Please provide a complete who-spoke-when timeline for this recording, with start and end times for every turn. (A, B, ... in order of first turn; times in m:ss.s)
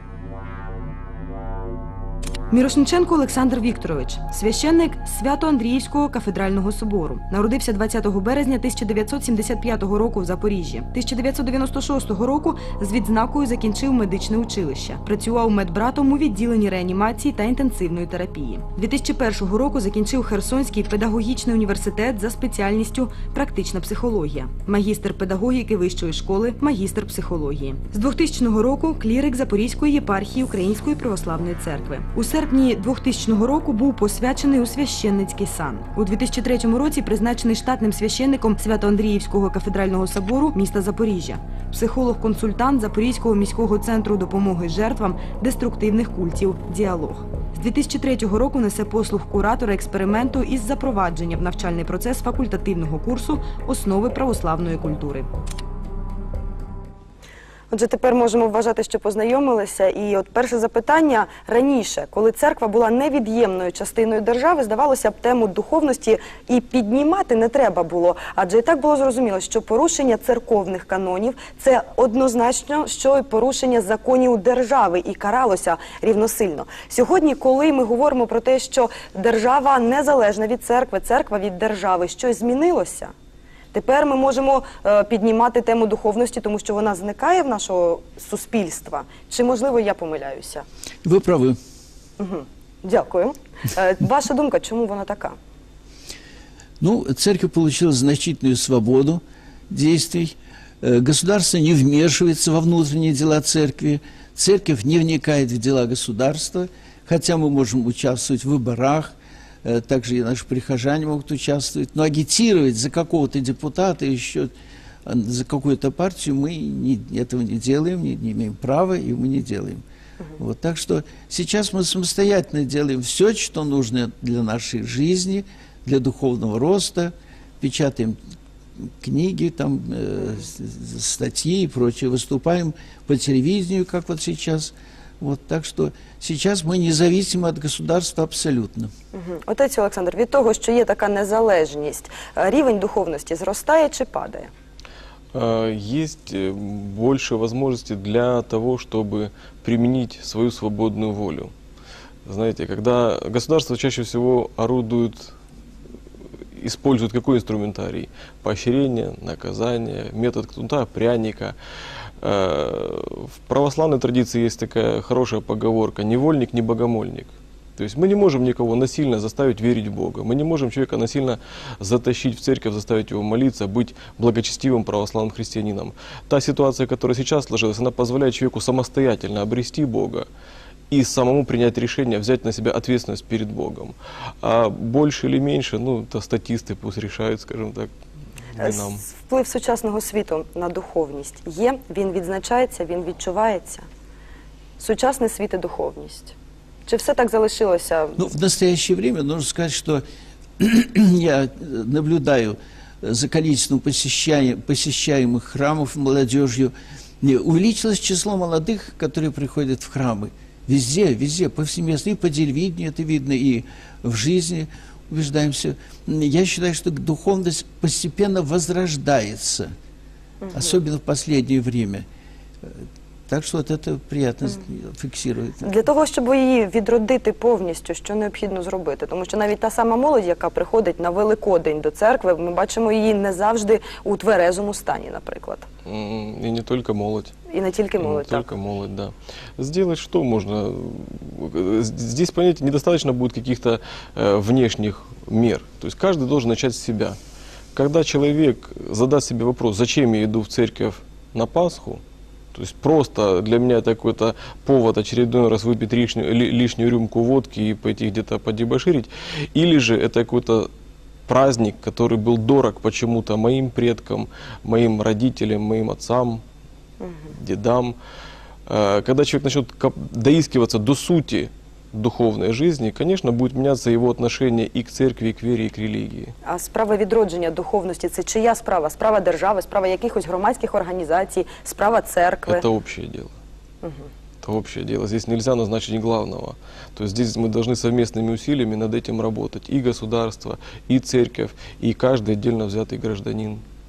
0:02.5-0:55.3 A
0:57.7-1:23.1 B
1:23.7-1:30.6 B
1:31.0-1:31.6 C
1:32.2-1:35.4 B
1:36.8-1:54.5 C
1:55.1-1:59.8 C
2:00.4-2:08.2 C
2:08.8-2:18.9 C
2:19.1-2:24.5 B
2:25.3-2:31.5 D
2:32.3-2:35.3 D
2:36.6-2:41.6 D
2:42.2-3:00.3 D
3:00.9-3:07.9 D
3:08.6-3:09.0 D
3:08.6-3:13.9 B
3:14.8-3:16.4 B
3:16.9-3:18.3 B
3:18.2-3:20.0 C
3:20.6-3:39.7 C
3:40.4-3:40.8 B
3:40.5-3:42.1 C
3:42.6-3:45.7 C
3:45.6-3:55.7 B
3:55.9-3:57.3 D
3:57.5-3:58.5 B
3:58.0-4:07.2 D
4:07.7-4:12.0 D
4:12.5-4:20.7 D
4:21.3-4:26.4 D
4:27.0-4:27.3 B
4:27.3-4:28.0 D
4:28.7-4:36.3 D
4:36.4-4:42.7 B
4:42.5-4:43.4 D
4:44.4-4:53.6 D